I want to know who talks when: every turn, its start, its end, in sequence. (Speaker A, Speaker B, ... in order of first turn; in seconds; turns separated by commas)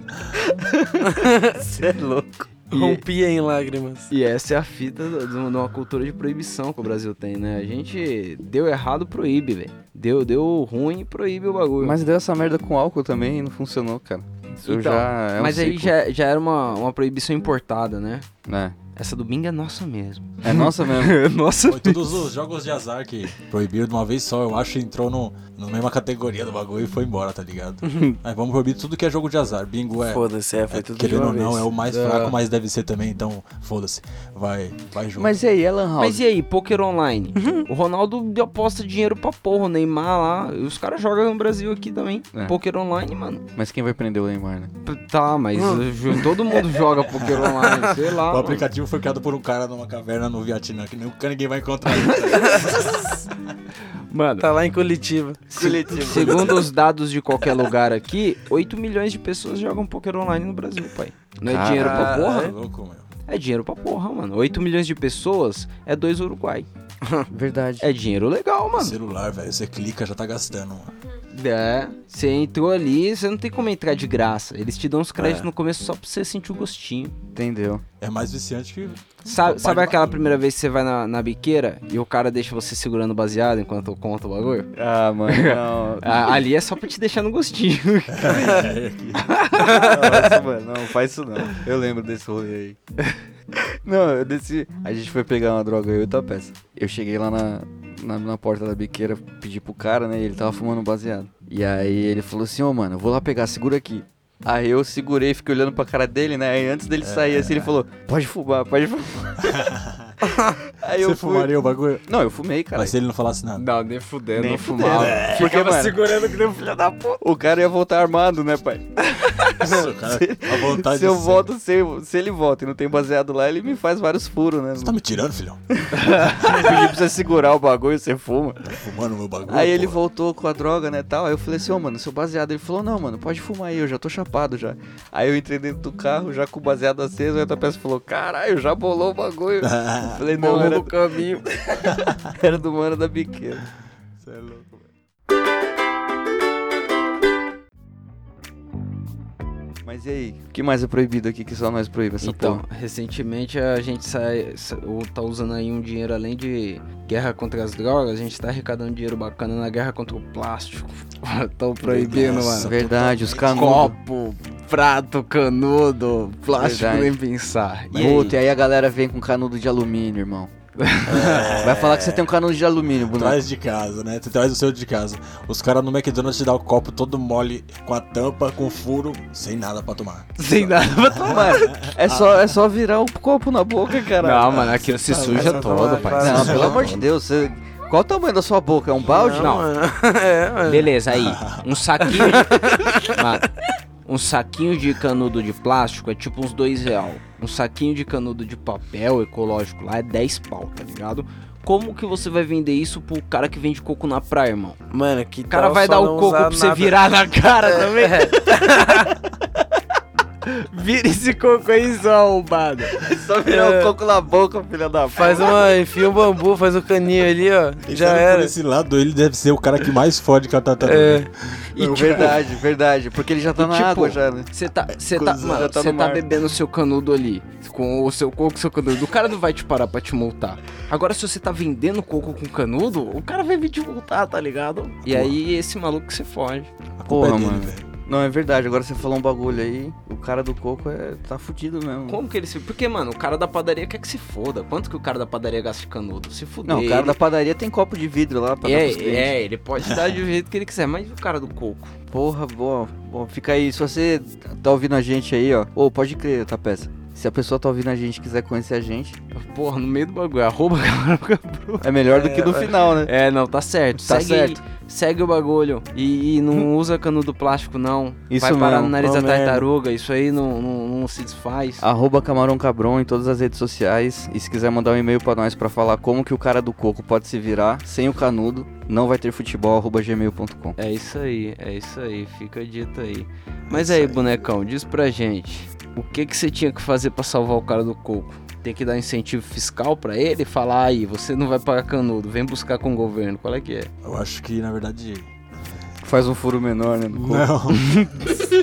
Speaker A: 0.3-2.5, Speaker B: 1.1-1.6, Speaker B: 2.7-4.1, Speaker C: 2.7-3.0, Speaker C: 4.1-12.0, Speaker A: 11.8-15.9, Speaker C: 14.6-18.2, Speaker A: 18.4-18.8, Speaker C: 18.9-22.2, Speaker A: 20.4-21.2, Speaker D: 21.7-35.3, Speaker A: 27.9-28.1, Speaker B: 30.1-31.7, Speaker C: 31.9-32.4, Speaker A: 35.1-36.2, Speaker C: 36.0-43.4, Speaker A: 43.5-44.7, Speaker C: 44.8-48.6, Speaker D: 47.2-53.2, Speaker C: 54.1-54.5, Speaker B: 54.4-56.4, Speaker A: 55.5-56.5, Speaker C: 55.9-62.5, Speaker D: 56.0-56.6, Speaker A: 61.4-62.0, Speaker B: 61.8-62.5, Speaker D: 61.8-63.1, Speaker C: 63.3-66.7, Speaker A: 67.3-67.9, Speaker C: 67.8-69.0, Speaker D: 68.8-70.9, Speaker C: 71.3-77.1, Speaker B: 75.2-75.5, Speaker A: 77.3-77.8, Speaker D: 78.0-80.3, Speaker C: 79.2-84.7, Speaker A: 84.7-86.4, Speaker C: 85.3-88.7, Speaker D: 88.1-89.3, Speaker C: 89.2-90.3, Speaker A: 89.8-92.8, Speaker A: 93.5-109.7, Speaker D: 107.0-107.7, Speaker D: 109.4-110.1, Speaker A: 110.7-112.9, Speaker D: 110.9-112.0, Speaker D: 112.7-113.6, Speaker C: 113.6-117.2, Speaker A: 114.3-116.0, Speaker D: 114.8-115.5, Speaker A: 117.2-118.9, Speaker C: 119.2-119.5, Speaker D: 119.5-121.5, Speaker A: 119.6-125.0, Speaker D: 124.8-125.6, Speaker A: 125.8-128.8, Speaker C: 126.0-126.4, Speaker D: 126.4-126.8, Speaker D: 128.7-130.0, Speaker A: 129.4-140.9, Speaker D: 139.6-140.2, Speaker C: 140.3-141.5, Speaker D: 141.9-142.2, Speaker A: 142.0-143.7, Speaker D: 144.2-144.8, Speaker A: 149.8-152.6, Speaker C: 152.2-162.7, Speaker D: 161.8-163.9, Speaker A: 162.3-163.9, Speaker C: 163.4-168.4, Speaker A: 166.5-167.2, Speaker A: 167.9-170.5, Speaker C: 170.8-171.5, Speaker D: 171.1-172.0, Speaker B: 171.2-171.6, Speaker A: 171.5-173.4, Speaker D: 173.1-182.5, Speaker C: 180.4-181.7, Speaker A: 181.2-184.7, Speaker C: 184.2-187.0, Speaker D: 184.5-187.0, Speaker B: 185.3-186.9, Speaker A: 186.2-189.6, Speaker B: 189.0-190.9, Speaker C: 189.4-189.7, Speaker C: 190.6-193.5, Speaker D: 191.1-191.8, Speaker B: 192.1-193.2, Speaker C: 194.1-204.8, Speaker B: 204.9-207.0, Speaker C: 205.5-208.5, Speaker B: 207.6-209.1, Speaker C: 210.4-212.9, Speaker A: 212.9-215.7, Speaker B: 213.4-213.9, Speaker B: 215.1-218.5, Speaker D: 217.8-222.6, Speaker B: 220.8-221.3, Speaker A: 221.8-224.5, Speaker C: 223.6-236.7, Speaker A: 225.1-226.2, Speaker D: 235.0-235.3, Speaker D: 237.0-237.8, Speaker A: 237.1-242.2, Speaker C: 242.1-247.2, Speaker A: 246.6-249.3, Speaker C: 248.6-251.9, Speaker A: 252.1-259.2, Speaker C: 259.3-261.9, Speaker A: 261.8-263.1, Speaker B: 262.1-262.7, Speaker C: 263.0-271.8, Speaker A: 263.9-264.6, Speaker A: 268.3-269.0, Speaker B: 269.0-269.6, Speaker A: 271.8-280.8, Speaker C: 280.8-293.9, Speaker D: 283.7-284.2, Speaker D: 294.0-295.3, Speaker A: 296.0-297.5, Speaker D: 297.1-298.4